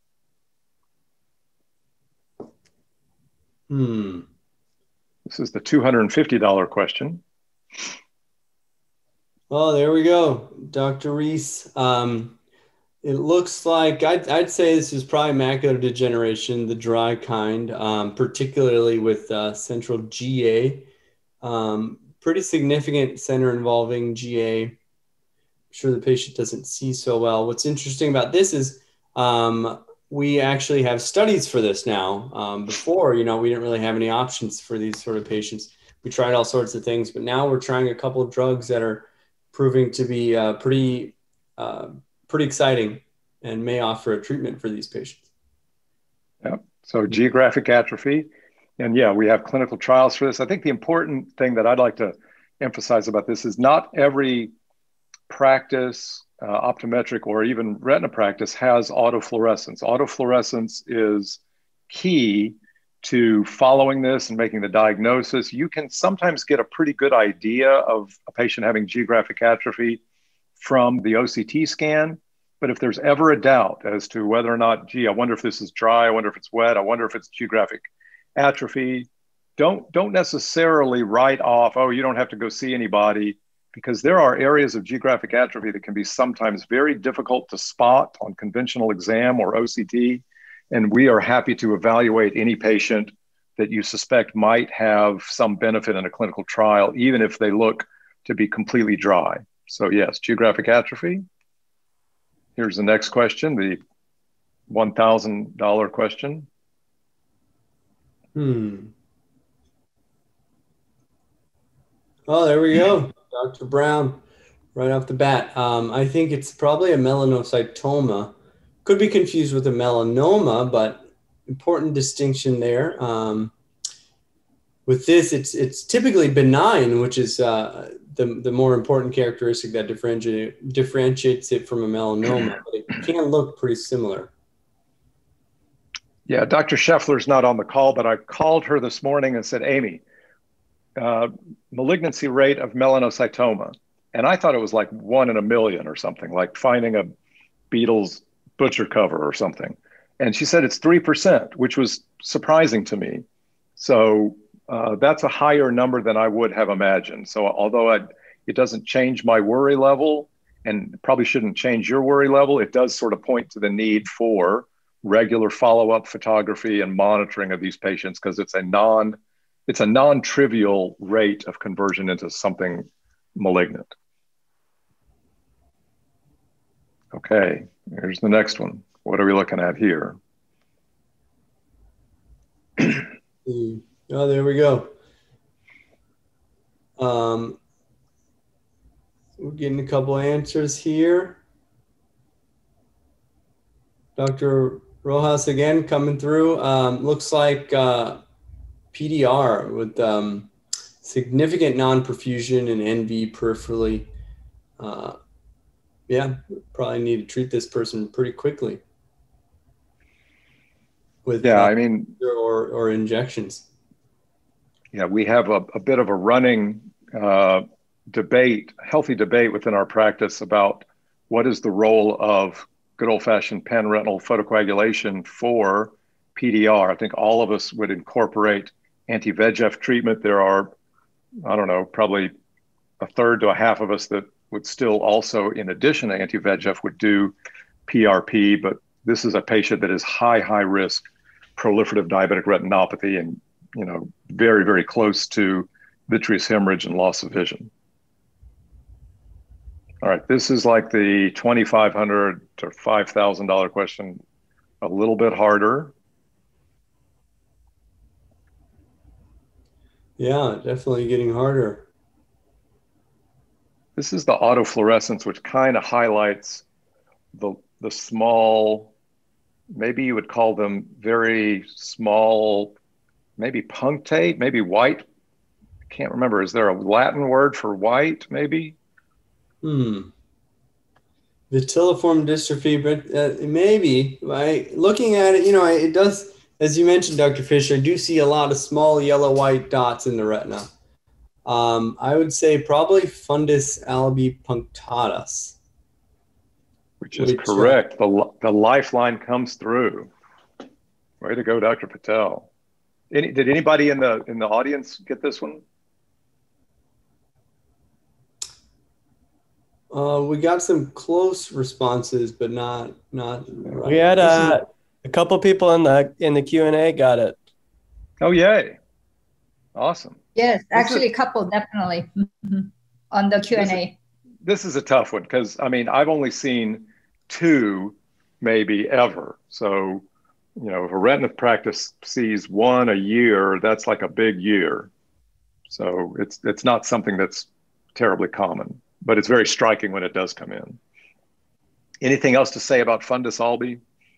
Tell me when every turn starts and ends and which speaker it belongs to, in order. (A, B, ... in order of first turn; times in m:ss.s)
0:03.7-0:04.3 A
0:05.3-0:07.2 B
0:09.5-0:12.4 A
0:13.0-0:20.9 A
0:21.4-0:24.8 A
0:25.7-0:45.2 A
0:46.4-0:54.5 B
0:55.3-1:10.0 B
1:10.6-1:17.8 B
1:18.4-1:41.3 B
1:42.6-1:43.8 B
1:44.7-1:46.5 B
1:48.4-1:48.9 A
1:52.3-1:54.2 A
1:54.8-2:03.5 A
2:04.9-2:14.3 A
2:16.3-2:20.0 B
2:21.0-2:27.1 B
2:27.7-2:33.2 B
2:33.8-2:53.9 B
2:57.1-3:00.2 B
3:03.4-3:04.9 A
3:07.0-3:07.6 A
3:09.4-3:11.4 A
3:14.2-3:18.2 A
3:18.9-3:20.5 A
3:21.0-3:24.1 A
3:24.8-3:25.2 A
3:26.1-3:28.8 A
3:31.2-3:33.7 A
3:31.4-3:32.2 B
3:34.9-3:50.7 B
3:51.4-3:52.3 B
3:53.0-3:57.3 B
3:57.9-4:07.7 B
4:10.0-4:14.2 B
4:14.8-4:15.9 B
4:20.2-4:21.8 A
4:24.0-4:26.6 B
4:27.3-4:28.9 B
4:29.7-4:32.8 B
4:33.4-4:35.1 B
4:35.9-4:38.8 B
4:39.6-4:40.1 A
4:41.5-4:50.7 A
4:51.4-4:55.6 A
4:57.0-5:00.1 B
4:57.2-4:57.8 A
5:01.2-5:02.5 B
5:03.1-5:05.6 B
5:09.9-5:14.6 A
5:13.9-5:17.4 C
5:18.2-5:18.8 B
5:19.8-5:21.1 B
5:20.4-5:23.9 D
5:23.6-5:23.8 B
5:24.4-5:30.0 B
5:30.6-5:34.9 B
5:35.7-5:40.8 B
5:42.0-5:43.8 B